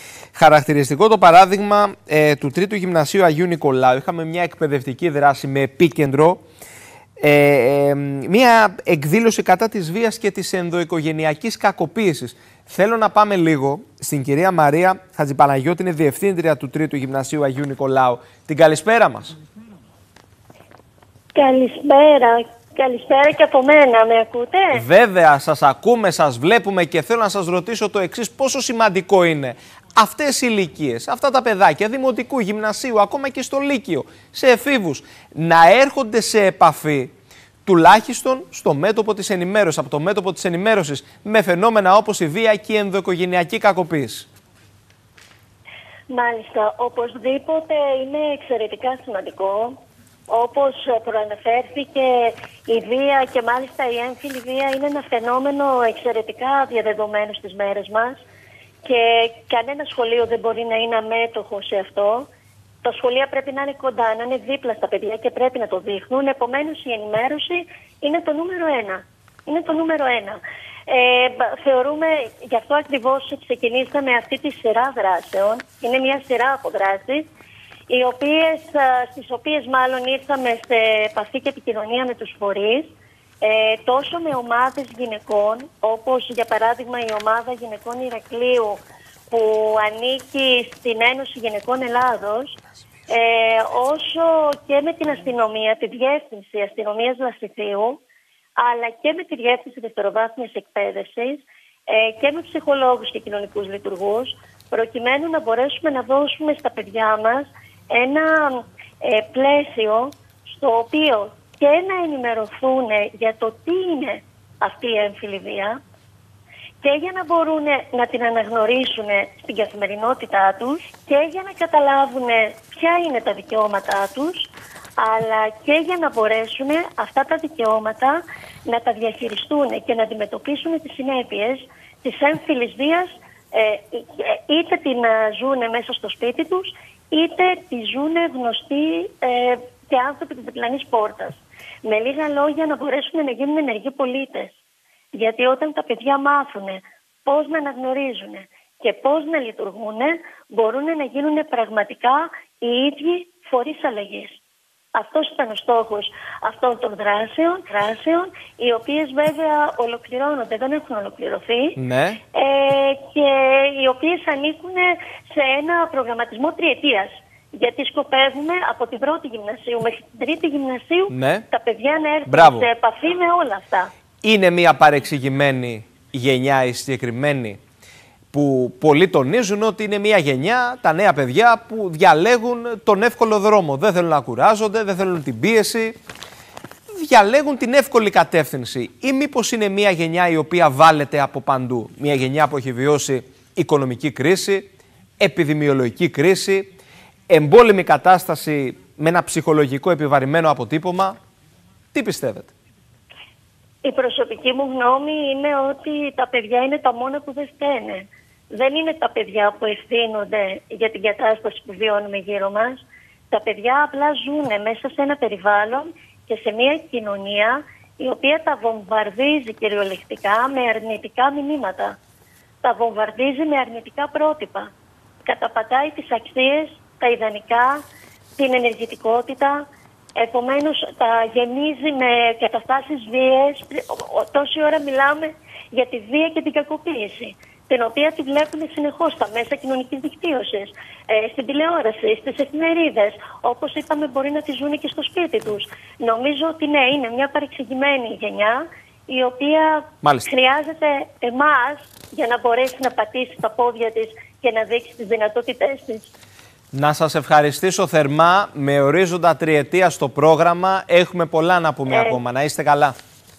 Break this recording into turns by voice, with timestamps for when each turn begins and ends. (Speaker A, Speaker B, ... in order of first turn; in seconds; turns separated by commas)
Speaker A: 0.3-6.4, Speaker A: 7.2-19.4, Speaker B: 21.4-24.8, Speaker A: 24.7-37.1, Speaker A: 37.7-44.3, Speaker B: 46.1-58.2, Speaker B: 58.8-62.3, Speaker B: 62.8-77.3, Speaker B: 77.9-98.0, Speaker B: 98.6-115.8, Speaker B: 116.8-144.6, Speaker B: 145.1-154.4, Speaker B: 154.9-161.8, Speaker A: 161.8-162.2, Speaker B: 162.3-173.9, Speaker A: 171.1-171.5, Speaker A: 172.3-172.7, Speaker A: 174.2-177.6, Speaker A: 178.3-186.0, Speaker A: 186.9-194.7, Speaker A: 195.2-196.7, Speaker A: 197.3-201.2, Speaker A: 201.9-202.5, Speaker B: 203.8-222.0, Speaker B: 222.6-224.7, Speaker B: 225.2-227.8, Speaker B: 228.4-229.7, Speaker B: 230.2-256.1, Speaker A: 250.0-250.3, Speaker A: 256.7-262.9, Speaker B: 261.9-262.2